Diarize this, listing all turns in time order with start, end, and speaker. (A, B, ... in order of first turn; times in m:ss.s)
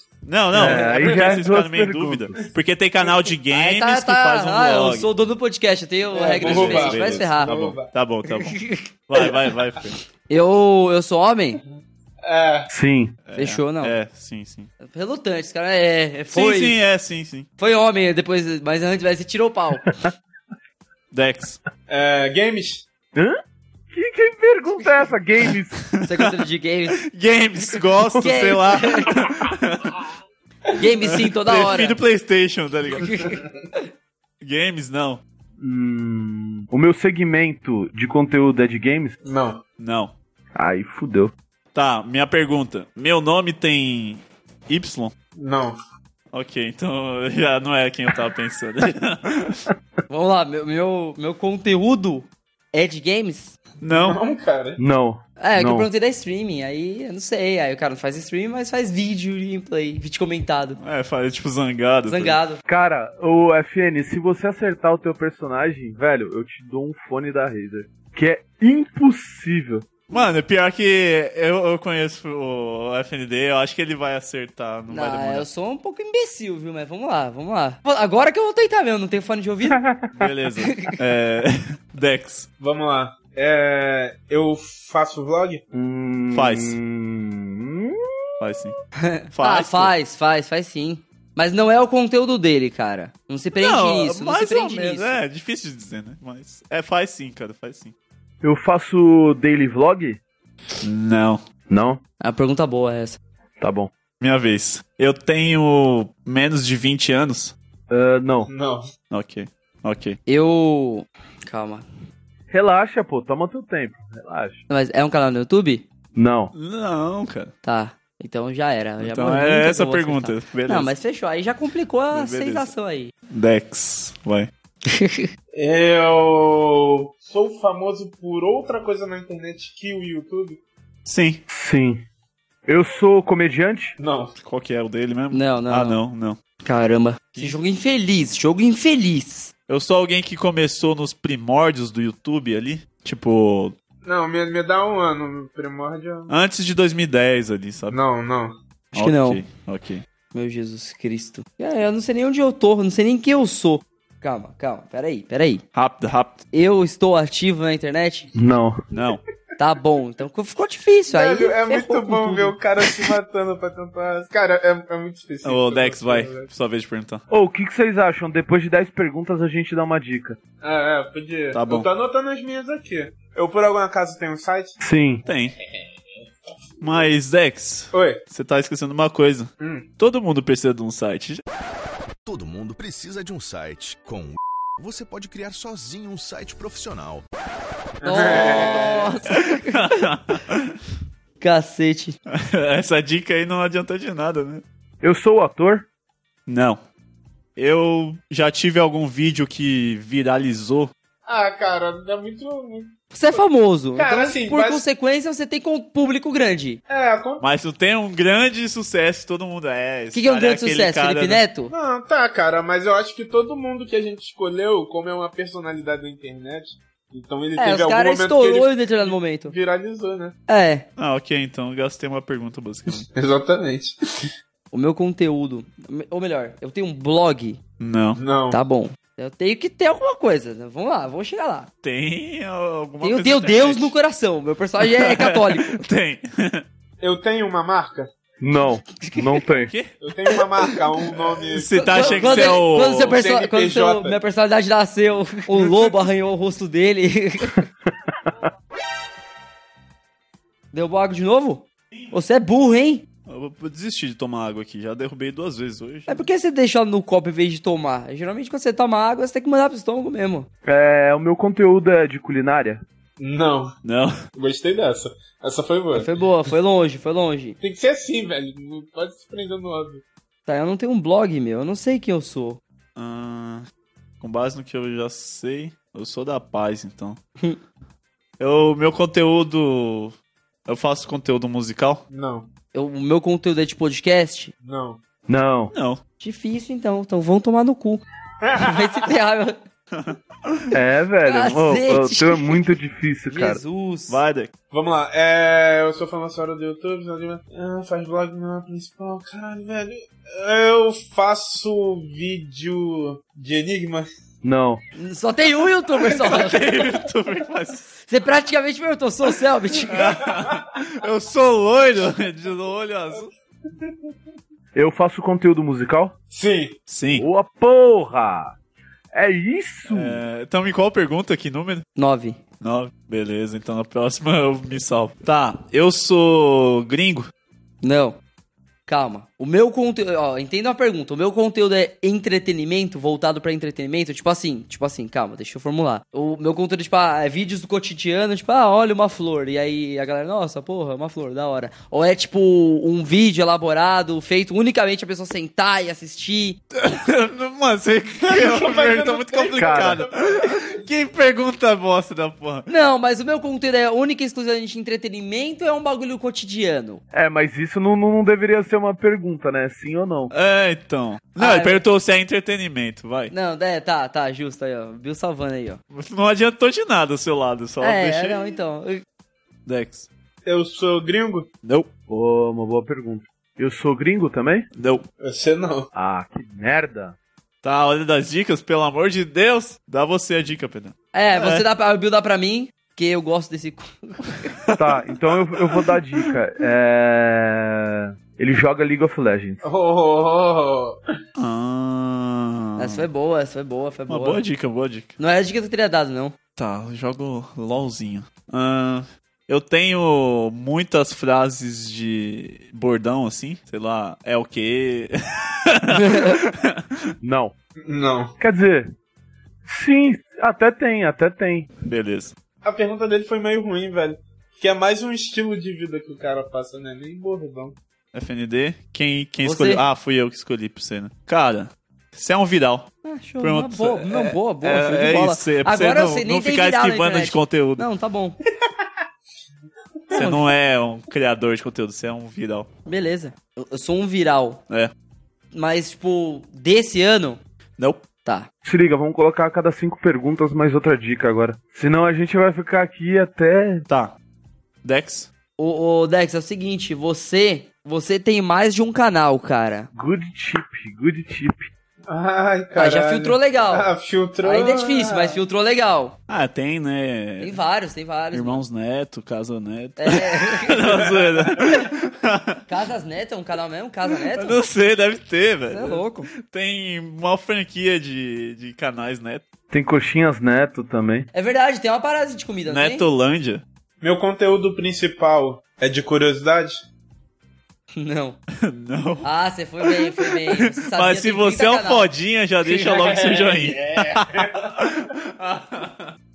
0:00.3-0:05.1 A
0:00.5-0:02.4 B
0:00.6-0:01.4 C
0:03.5-0:07.6 D
0:06.1-0:07.9 C
0:06.4-0:10.0 A
0:08.4-0:08.9 D
0:10.3-0:11.6 D
0:12.2-0:12.7 C
0:12.7-0:13.2 B
0:13.3-0:14.7 A
0:13.4-0:14.0 D
0:14.8-0:16.8 D
0:16.3-0:17.5 A
0:17.6-0:19.9 D
0:21.1-0:21.6 A
0:21.9-0:22.8 C
0:23.1-0:23.4 B
0:23.9-0:25.8 B
0:26.0-0:27.0 D
0:27.0-0:30.0 A
0:28.1-0:29.2 D
0:30.8-0:32.0 D
0:31.1-0:33.3 A
0:33.0-0:33.8 D
0:34.4-0:35.2 A
0:35.6-0:39.2 B
0:39.2-0:39.6 C
0:39.8-0:40.1 A
0:40.6-0:41.3 B
0:41.7-0:45.1 A
0:45.4-0:45.8 C
0:46.3-0:49.7 A
0:50.1-0:53.6 D
0:53.8-0:54.2 A
0:53.9-0:54.8 C
0:54.8-0:55.9 B
0:55.4-1:00.8 D
1:00.8-1:02.4 A
1:02.1-1:02.6 D
1:02.7-1:09.9 B
1:10.1-1:15.5 A
1:14.9-1:19.8 D
1:20.1-1:22.5 A
1:22.6-1:25.6 C
1:25.7-1:28.2 B
1:26.3-1:26.8 A
1:28.4-1:28.8 A
1:29.0-1:35.2 D
1:29.3-1:29.9 A
1:33.6-1:37.9 A
1:38.4-1:40.2 B
1:40.8-1:41.4 A
1:41.7-1:42.0 B
1:42.2-1:43.2 D
1:43.6-1:43.9 B
1:44.2-1:47.6 A
1:47.9-1:48.5 B
1:48.5-1:48.9 C
1:49.1-1:50.2 A
1:50.3-1:51.8 D
1:52.5-1:54.6 B
1:54.7-1:55.9 D
1:56.2-1:56.5 B
1:56.5-1:57.5 A
1:57.6-2:03.1 D
1:59.0-2:00.9 A
2:02.1-2:02.7 A
2:03.3-2:04.5 A
2:04.9-2:05.3 D
2:05.5-2:10.6 C
2:11.1-2:11.4 A
2:11.5-2:12.0 B
2:12.7-2:14.0 B
2:14.0-2:14.3 C
2:14.4-2:16.4 A
2:15.3-2:16.0 D
2:16.6-2:19.5 D
2:19.7-2:23.8 A
2:24.0-2:26.3 C
2:26.3-2:28.0 A
2:27.9-2:28.6 C
2:28.9-2:29.4 D
2:28.9-2:30.0 A
2:30.3-2:35.6 D
2:35.8-2:36.4 A
2:36.5-2:38.3 D
2:38.3-2:38.8 B
2:38.9-2:39.2 A
2:39.6-2:42.6 D
2:41.1-2:46.5 C
2:45.4-2:47.2 A
2:47.3-2:50.4 B
2:50.6-2:54.8 C
2:51.5-2:51.9 A
2:54.8-2:55.2 B
2:55.3-2:55.6 A
2:56.8-3:01.4 A
2:57.9-2:58.2 C
2:59.6-2:59.9 C
3:02.2-3:07.2 E
3:08.0-3:09.2 C
3:08.0-3:10.0 D
3:09.5-3:10.7 A
3:11.4-3:12.2 D
3:12.3-3:14.6 A
3:15.0-3:15.9 B
3:16.5-3:16.8 A
3:17.6-3:20.9 A
3:21.3-3:23.4 C
3:23.1-3:26.8 D
3:24.0-3:24.8 C
3:26.9-3:27.4 C
3:27.4-3:31.4 A
3:30.1-3:31.7 D
3:31.7-3:40.4 C
3:37.6-3:39.5 D
3:40.5-3:40.9 D
3:41.0-3:43.1 A
3:43.1-3:44.3 C
3:44.7-3:47.6 D
3:47.8-3:48.2 A
3:48.2-3:48.6 C
3:48.5-3:51.7 D
3:51.8-3:53.9 A
3:53.0-3:55.8 D
3:54.8-3:56.6 A
3:57.0-3:58.1 C
3:58.4-3:59.7 B
3:59.6-3:59.9 A
4:00.0-4:04.2 C
4:01.5-4:03.2 A
4:01.8-4:07.6 D
4:10.7-4:13.0 D
4:13.3-4:16.2 A
4:16.1-4:20.5 D
4:20.6-4:22.8 B
4:23.2-4:23.7 C
4:23.8-4:24.2 A
4:24.4-4:26.1 C
4:25.9-4:27.6 D
4:27.6-4:30.0 C
4:30.5-4:32.6 D
4:33.0-4:33.6 A
4:34.2-4:37.2 A
4:38.4-4:40.2 A
4:40.7-4:42.0 A
4:42.1-4:42.5 C
4:42.7-4:44.5 D
4:44.6-4:45.0 C
4:45.3-4:45.7 B
4:45.7-4:46.0 A
4:46.2-4:48.0 D
4:48.4-4:49.0 C
4:48.6-4:49.6 D
4:49.9-4:50.6 A
4:50.7-4:53.6 B
4:51.3-4:52.6 D
4:53.3-4:54.2 D
4:54.1-4:54.5 A
4:54.7-5:04.1 C
5:04.4-5:04.8 B
5:05.0-5:06.6 D
5:06.3-5:07.9 A
5:08.1-5:10.0 D
5:09.9-5:13.3 A
5:14.7-5:16.1 B
5:16.3-5:16.8 C
5:16.9-5:17.3 A
5:17.1-5:18.6 B
5:19.1-5:20.2 B
5:19.9-5:21.8 A
5:22.0-5:22.4 D
5:22.6-5:27.3 A
5:27.8-5:28.2 D
5:28.9-5:46.6 D
5:46.7-5:52.7 A
5:48.2-5:50.8 C
5:49.6-5:50.0 B
5:52.7-5:57.0 D
5:57.1-6:00.3 B
6:00.3-6:03.3 A
6:01.4-6:01.8 D
6:03.3-6:05.8 D
6:05.9-6:08.6 A
6:07.8-6:09.0 D
6:09.7-6:10.1 A
6:10.4-6:11.5 C
6:11.6-6:11.9 A
6:12.1-6:14.7 B
6:14.8-6:15.0 A
6:15.2-6:15.9 C
6:15.9-6:17.2 B
6:17.6-6:21.6 A
6:21.1-6:24.5 D
6:24.7-6:26.0 A
6:24.8-6:29.6 B
6:29.6-6:31.0 C
6:31.4-6:33.0 A
6:32.8-6:34.4 D
6:34.1-6:35.2 A
6:35.2-6:36.4 D
6:36.6-6:46.8 A
6:45.9-6:46.4 D
6:47.2-6:47.5 B
6:47.8-6:48.4 C
6:48.4-6:48.9 B
6:49.7-6:51.7 B
6:51.8-6:52.3 A
6:52.6-6:57.8 C
6:58.1-7:02.9 A
6:59.4-6:59.8 D
7:03.0-7:08.4 D
7:03.4-7:07.8 A
7:10.1-7:12.7 A
7:10.1-7:10.5 D
7:12.9-7:14.6 D
7:15.5-7:17.4 D
7:17.8-7:18.0 A
7:18.6-7:23.8 B
7:23.9-7:24.2 A
7:24.8-7:25.3 A
7:25.6-7:29.9 D
7:29.9-7:31.7 B
7:32.1-7:35.4 C
7:32.8-7:33.9 D
7:34.4-7:36.2 D
7:36.3-7:37.6 A
7:37.4-7:38.6 D
7:38.3-7:42.6 A
7:40.0-7:41.0 D
7:42.7-7:44.6 D
7:44.3-7:49.4 A
7:45.7-7:46.3 D
7:49.7-7:51.3 B
7:51.3-7:53.1 D
7:52.7-7:53.6 A
7:54.0-7:56.8 C
7:58.0-7:58.4 D
7:58.6-7:59.3 A
7:59.2-8:02.1 D
7:59.9-8:06.1 A
8:02.6-8:04.7 C